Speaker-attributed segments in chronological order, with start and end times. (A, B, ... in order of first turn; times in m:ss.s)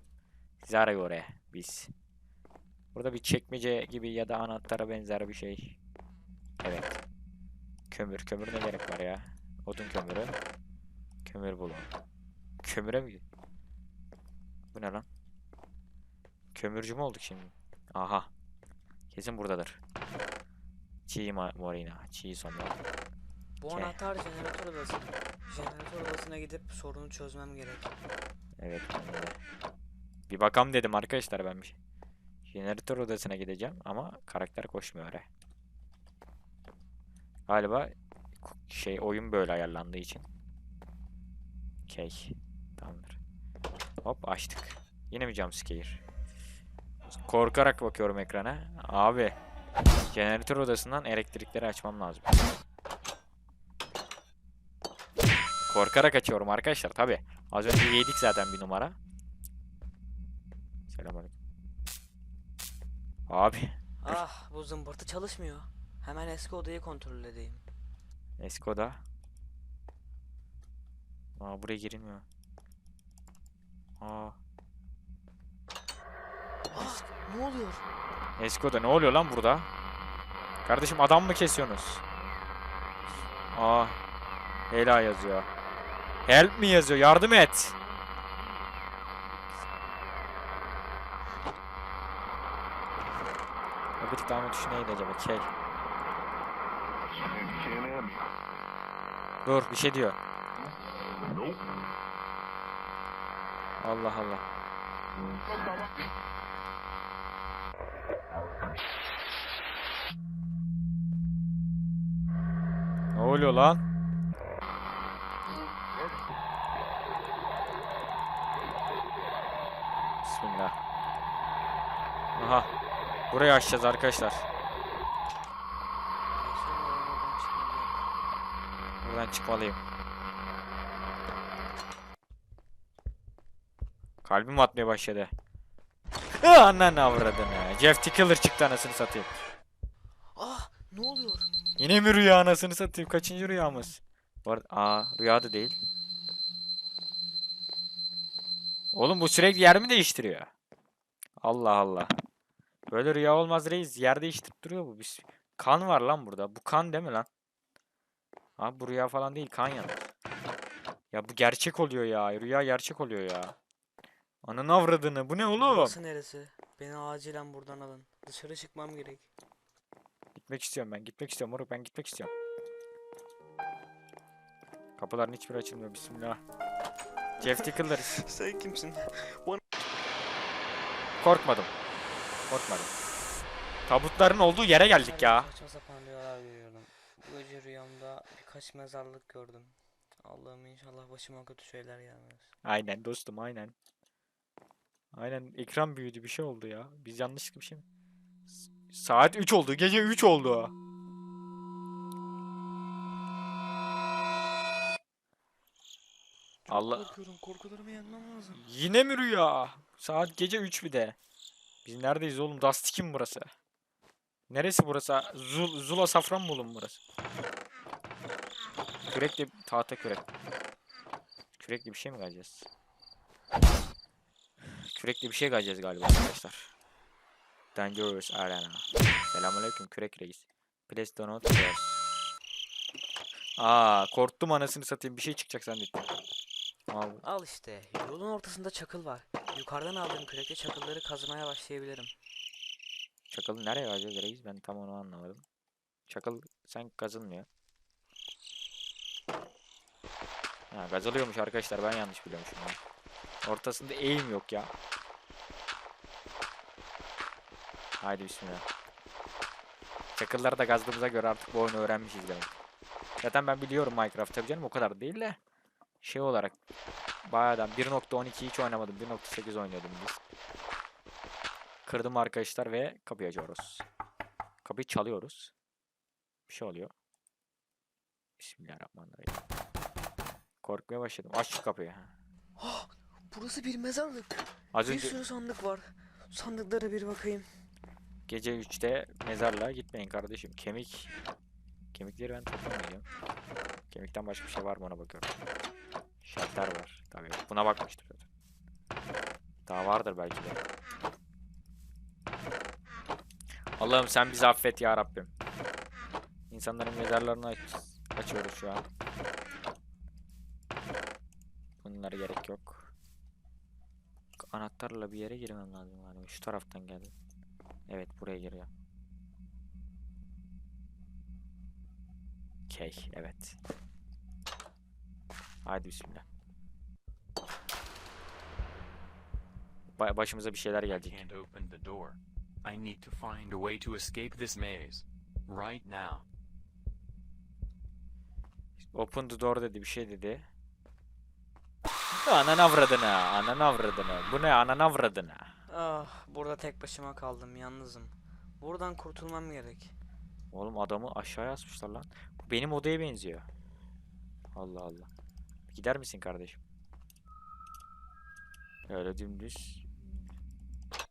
0:00.6-0:01.9 A
0:02.9-0:05.8 A
0:06.6-0:07.0 A
0:07.9-0:10.4 A
0:11.2-0:11.9 A
0:12.6-0:13.2 A
0:14.7-0:15.0 A
0:16.5-0:18.3 A
0:19.1-0:19.8 A
0:21.1-0:22.8 A
0:23.6-0:27.9 B
0:23.7-0:24.0 A
0:28.6-0:29.4 A
0:30.3-0:31.8 A
0:32.5-0:35.3 A
0:37.5-0:40.3 A
0:41.9-0:43.2 A
0:44.0-0:46.0 A
0:47.1-0:49.4 A
0:50.1-0:52.4 A
0:55.7-0:59.0 A
1:00.9-1:01.3 A
1:03.3-1:04.2 A
1:04.0-1:07.6 B
1:08.4-1:09.0 A
1:11.4-1:12.2 A
1:14.0-1:14.4 A
1:16.7-1:17.8 B
1:18.4-1:19.7 A
1:20.6-1:22.0 A
1:23.5-1:24.0 A
1:24.7-1:25.5 A
1:26.2-1:27.8 A
1:34.0-1:35.5 A
1:39.4-1:40.2 A
1:43.8-1:44.4 A
1:53.1-1:53.8 A
2:00.2-2:00.8 A
2:02.3-2:02.7 A
2:03.3-2:04.4 A
2:06.4-2:08.0 B
2:09.0-2:09.8 A
2:14.2-2:15.3 A
2:16.4-2:19.4 A
2:20.4-2:21.5 B
2:21.8-2:25.8 A
2:28.9-2:30.5 A
2:31.4-2:32.1 A
2:32.9-2:37.3 A
2:38.6-2:40.1 A
2:41.1-2:43.5 A
2:44.4-2:46.0 A
2:45.6-2:49.2 B
2:50.3-2:52.3 A
2:55.0-2:56.4 A
2:57.4-2:58.2 A
2:57.4-2:59.6 B
3:01.2-3:01.7 A
3:02.5-3:02.9 A
3:03.8-3:05.5 A
3:05.0-3:12.5 B
3:12.6-3:13.7 A
3:15.1-3:17.8 A
3:18.9-3:20.7 A
3:26.6-3:28.6 B
3:26.7-3:27.1 A
3:28.5-3:31.2 A
3:31.8-3:33.5 A
3:34.5-3:37.0 A
3:39.1-3:40.2 A
3:41.6-3:42.7 A
3:44.8-3:46.7 A
3:47.7-3:52.0 A
3:53.6-3:56.1 A
3:56.9-3:57.2 A
3:57.2-4:02.1 B
4:03.3-4:05.4 A
4:06.1-4:07.5 A
4:10.7-4:12.8 A
4:13.4-4:14.7 A
4:18.0-4:18.6 A
4:20.1-4:22.5 A
4:23.2-4:25.4 A
4:26.0-4:26.6 A
4:27.2-4:30.2 A
4:31.8-4:33.8 A
4:34.6-4:35.5 A
4:36.5-4:36.9 A
4:38.4-4:39.4 A
4:40.6-4:42.1 A
4:42.6-4:47.5 B
4:44.7-4:45.2 A
4:48.3-4:51.1 A
4:51.9-4:53.0 A
4:53.9-4:55.3 A
4:56.2-4:58.2 A
4:59.6-5:00.6 A
5:03.8-5:05.3 A
5:06.5-5:08.9 A
5:11.8-5:12.9 A
5:14.4-5:17.1 A
5:17.9-5:18.7 A
5:22.7-5:23.6 A
5:25.6-5:26.2 A
5:30.0-5:31.2 A
5:30.9-5:36.2 C
5:38.9-5:40.4 A
5:42.2-5:45.5 A
5:45.7-5:49.9 B
5:50.5-5:53.5 A
5:54.5-5:55.1 A
5:55.7-5:56.6 A
5:58.9-5:59.9 A